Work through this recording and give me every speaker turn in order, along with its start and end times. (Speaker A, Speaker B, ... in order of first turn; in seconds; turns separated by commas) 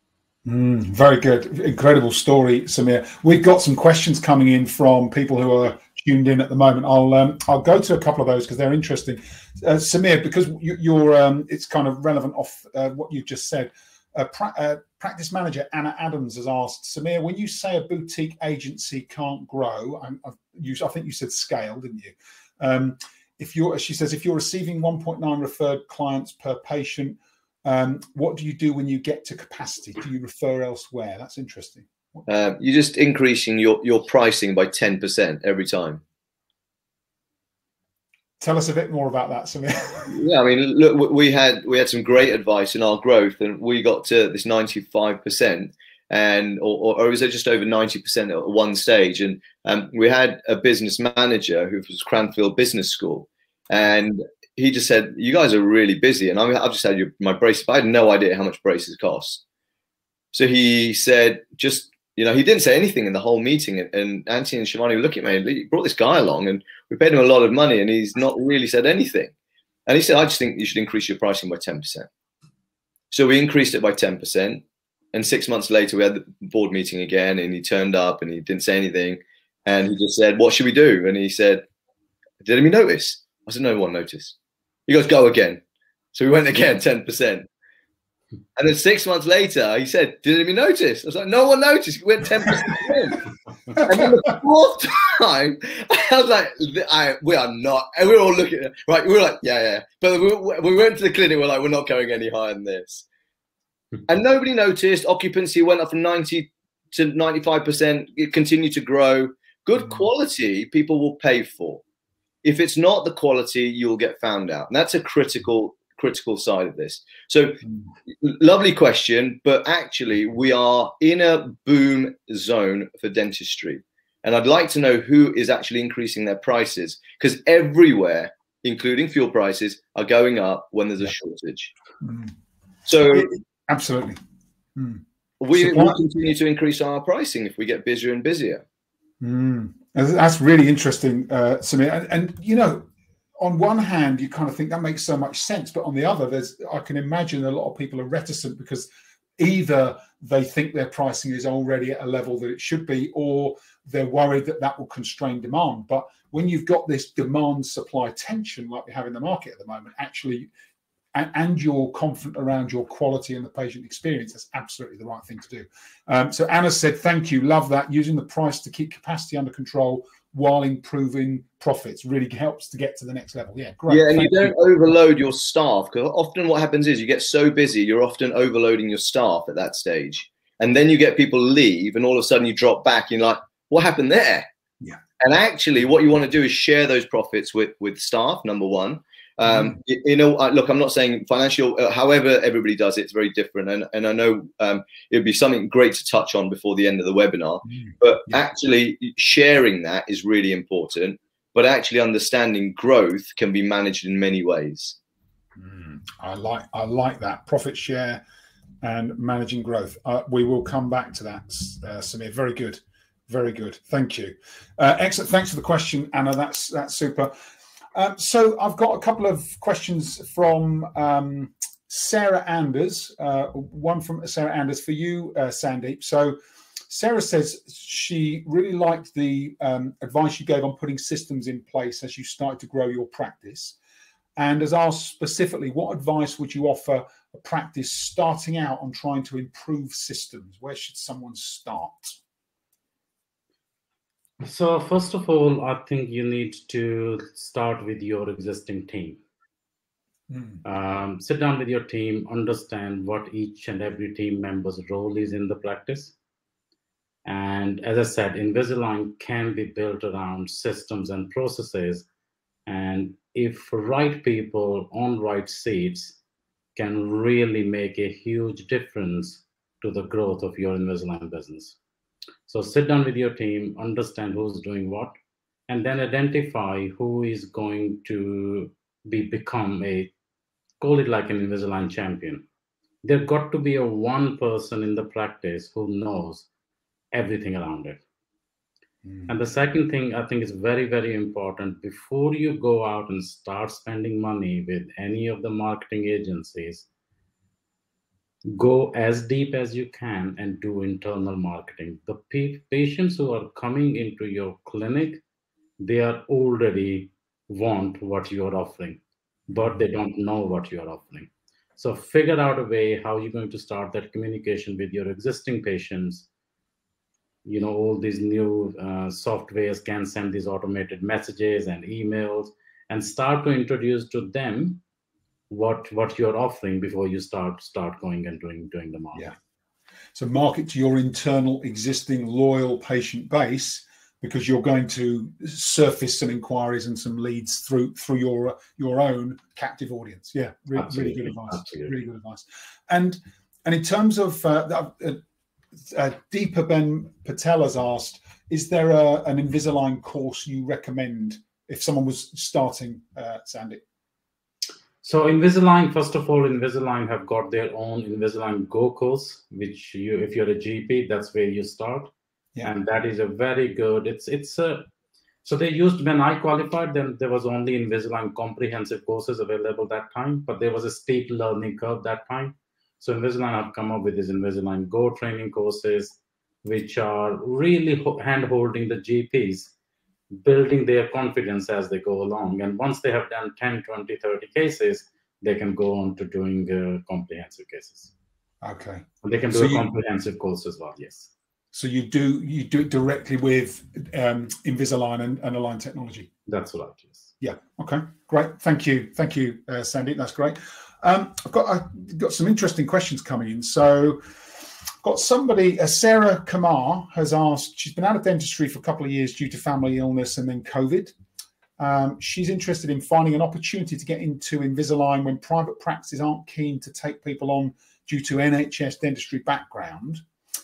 Speaker A: 0.5-32.2, Speaker B: 32.3-36.0, Speaker A: 38.4-40.2, Speaker B: 40.1-59.4, Speaker B: 60.3-69.3, Speaker B: 69.9-72.1, Speaker B: 73.1-81.6, Speaker B: 82.4-84.4, Speaker B: 84.9-85.6, Speaker B: 86.1-87.5, Speaker B: 88.6-93.2, Speaker A: 93.8-94.0, Speaker B: 93.8-103.1, Speaker B: 104.1-111.8, Speaker B: 112.4-131.7, Speaker A: 132.0-132.3, Speaker B: 132.9-133.3, Speaker A: 133.1-134.2, Speaker A: 134.8-136.0, Speaker B: 135.4-138.6, Speaker A: 139.2-148.9, Speaker A: 149.4-160.5, Speaker A: 161.2-174.6, Speaker B: 173.9-184.5, Speaker B: 185.2-205.0, Speaker A: 189.5-189.8, Speaker A: 197.7-198.4, Speaker A: 205.6-208.2, Speaker A: 208.8-217.3, Speaker A: 217.9-226.3, Speaker A: 226.9-233.8, Speaker A: 234.4-242.2, Speaker C: 244.4-249.2, Speaker A: 250.3-250.6, Speaker C: 250.7-256.1, Speaker C: 257.2-262.1, Speaker C: 262.7-266.2, Speaker C: 266.8-271.8, Speaker C: 272.5-275.1, Speaker C: 275.7-280.1, Speaker C: 280.8-282.4, Speaker C: 283.0-286.5, Speaker C: 287.1-288.0, Speaker A: 289.1-289.3, Speaker C: 289.3-296.9, Speaker C: 298.5-305.2, Speaker C: 305.8-316.3, Speaker A: 309.5-309.8, Speaker C: 317.4-324.8, Speaker C: 325.5-329.3, Speaker A: 330.1-345.2, Speaker C: 340.8-341.9, Speaker A: 345.9-353.8, Speaker C: 355.0-362.1, Speaker C: 362.6-364.9, Speaker C: 365.4-379.7, Speaker C: 380.3-388.1, Speaker A: 388.6-389.9, Speaker C: 389.2-391.3, Speaker A: 391.7-396.3, Speaker C: 396.5-397.3, Speaker A: 397.4-404.2, Speaker A: 405.0-411.1, Speaker A: 411.8-420.2